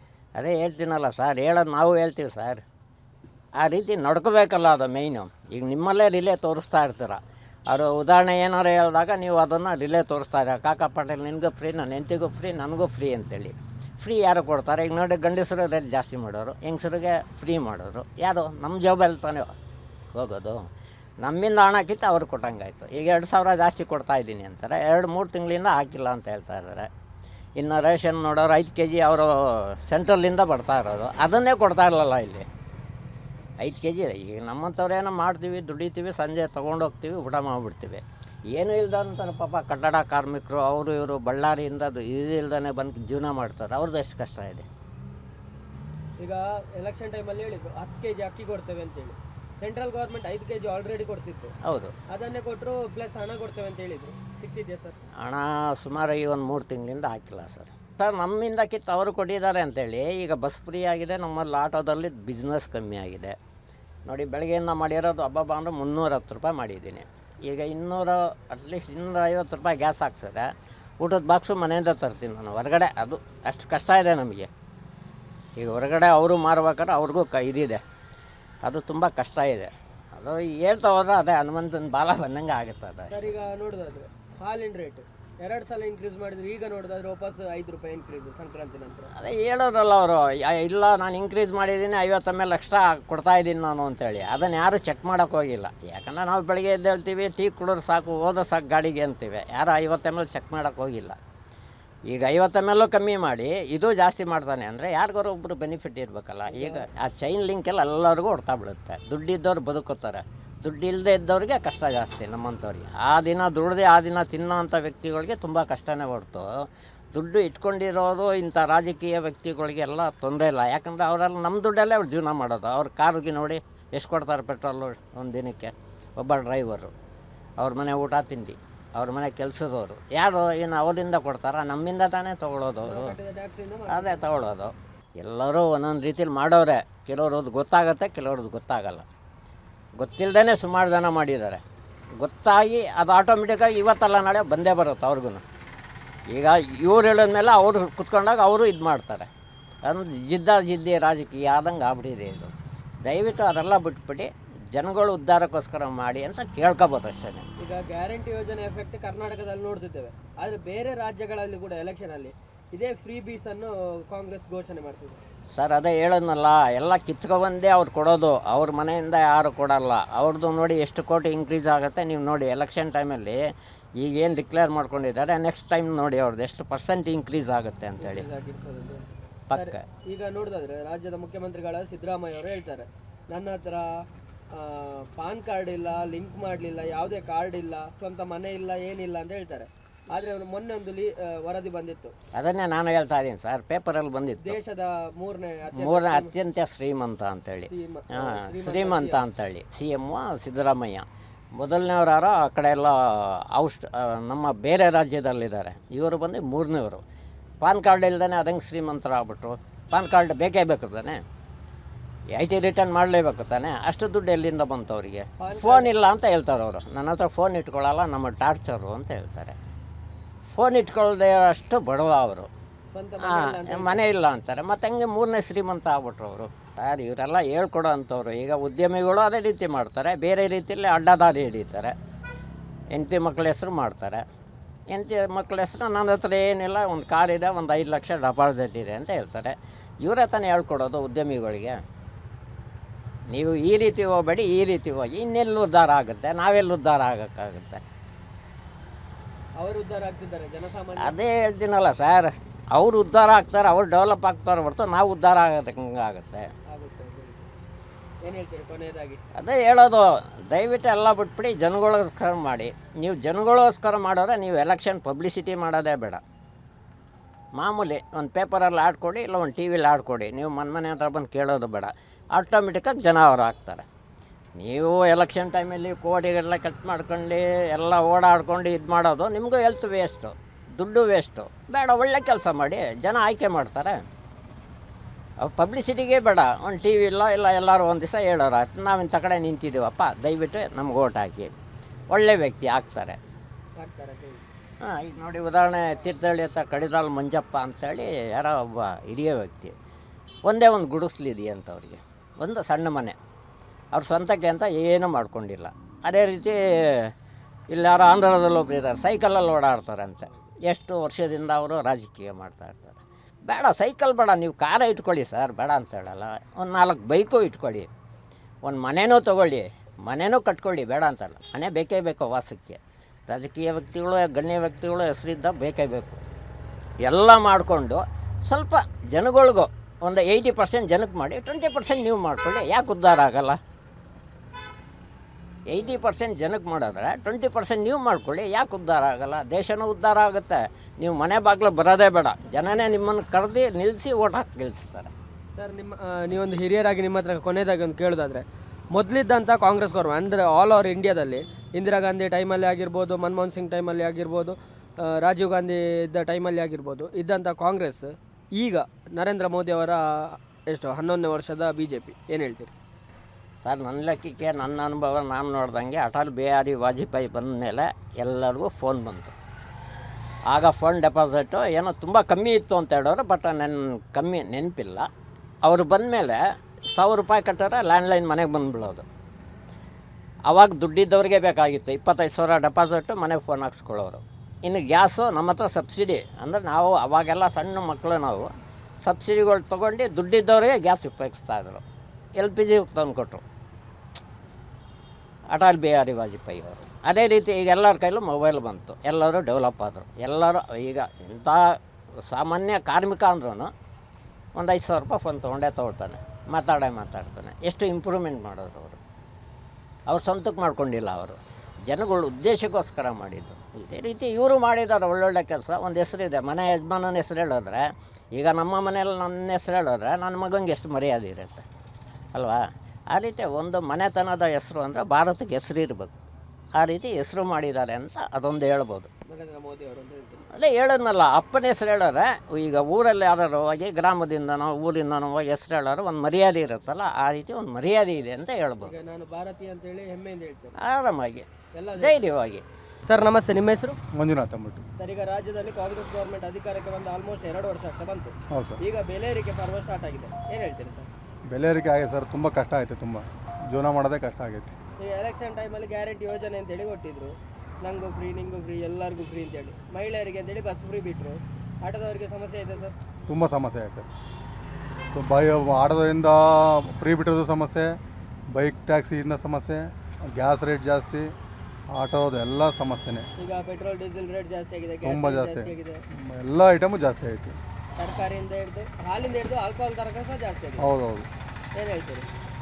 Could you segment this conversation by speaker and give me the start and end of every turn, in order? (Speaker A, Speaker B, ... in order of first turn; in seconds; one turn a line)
Speaker A: 0.3-2.6
Speaker A: 3.6-19.5
Speaker A: 20.1-20.6
Speaker A: 21.2-26.9
Speaker A: 27.6-32.5
Speaker A: 33.6-44.7
Speaker B: 46.2-51.5
Speaker A: 51.6-51.9
Speaker B: 52.1-55.0
Speaker A: 55.2-63.3
Speaker A: 64.1-70.5
Speaker A: 71.0-74.5
Speaker A: 75.6-77.8
Speaker A: 78.6-83.3
Speaker B: 83.1-89.1
Speaker A: 89.1-101.2
Speaker A: 102.1-116.5
Speaker B: 106.5-106.8
Speaker A: 117.1-126.9
Speaker A: 127.6-133.1
Speaker B: 132.8-134.3
Speaker A: 133.9-139.1
Speaker A: 140.0-141.6
Speaker A: 142.2-145.4
Speaker A: 146.3-149.3
Speaker A: 149.8-152.5
Speaker A: 153.0-157.4
Speaker B: 157.6-165.2
Speaker A: 165.5-173.4
Speaker A: 174.0-178.3
Speaker B: 178.0-183.9
Speaker A: 179.5-179.8
Speaker B: 184.5-192.1
Speaker A: 192.3-194.6
Speaker B: 194.4-196.3
Speaker A: 195.8-201.1
Speaker B: 197.7-199.2
Speaker A: 201.6-207.0
Speaker A: 207.6-211.2
Speaker A: 212.3-219.6
Speaker B: 215.4-215.9
Speaker A: 220.5-222.5
Speaker B: 222.9-224.0
Speaker A: 223.2-231.9
Speaker A: 232.9-234.2
Speaker A: 234.9-241.8
Speaker A: 243.3-247.8
Speaker B: 249.6-251.2
Speaker A: 251.0-256.5
Speaker B: 256.7-257.5
Speaker B: 258.2-259.2
Speaker A: 259.3-266.2
Speaker A: 267.6-273.8
Speaker A: 274.6-284.0
Speaker A: 285.4-291.5
Speaker A: 292.1-293.2
Speaker B: 293.8-294.4
Speaker A: 294.8-299.7
Speaker A: 300.4-303.2
Speaker A: 303.9-307.1
Speaker A: 307.7-317.9
Speaker A: 318.6-326.2
Speaker A: 327.0-333.6
Speaker A: 335.7-345.1
Speaker B: 345.6-362.7
Speaker A: 363.6-369.4
Speaker A: 370.5-375.1
Speaker A: 375.6-376.4
Speaker A: 376.9-379.1
Speaker A: 380.5-388.5
Speaker A: 389.0-391.8
Speaker A: 392.4-393.4
Speaker A: 395.5-401.7
Speaker A: 402.2-403.7
Speaker A: 404.6-409.0
Speaker A: 410.1-417.8
Speaker A: 418.4-421.6
Speaker A: 422.3-422.6
Speaker A: 423.1-426.1
Speaker A: 426.7-429.1
Speaker B: 429.3-430.5
Speaker A: 430.5-438.9
Speaker B: 438.8-440.8
Speaker A: 440.8-442.6
Speaker B: 441.8-442.2
Speaker B: 443.1-444.0
Speaker C: 444.1-444.8
Speaker B: 445.0-451.1
Speaker C: 448.5-448.8
Speaker C: 451.5-454.7
Speaker B: 455.0-462.9
Speaker C: 463.3-464.1
Speaker C: 465.1-468.0
Speaker C: 468.5-471.3
Speaker C: 471.9-473.3
Speaker B: 473.4-476.0
Speaker C: 475.0-477.6
Speaker B: 478.0-480.9
Speaker C: 480.8-481.3
Speaker B: 481.8-482.3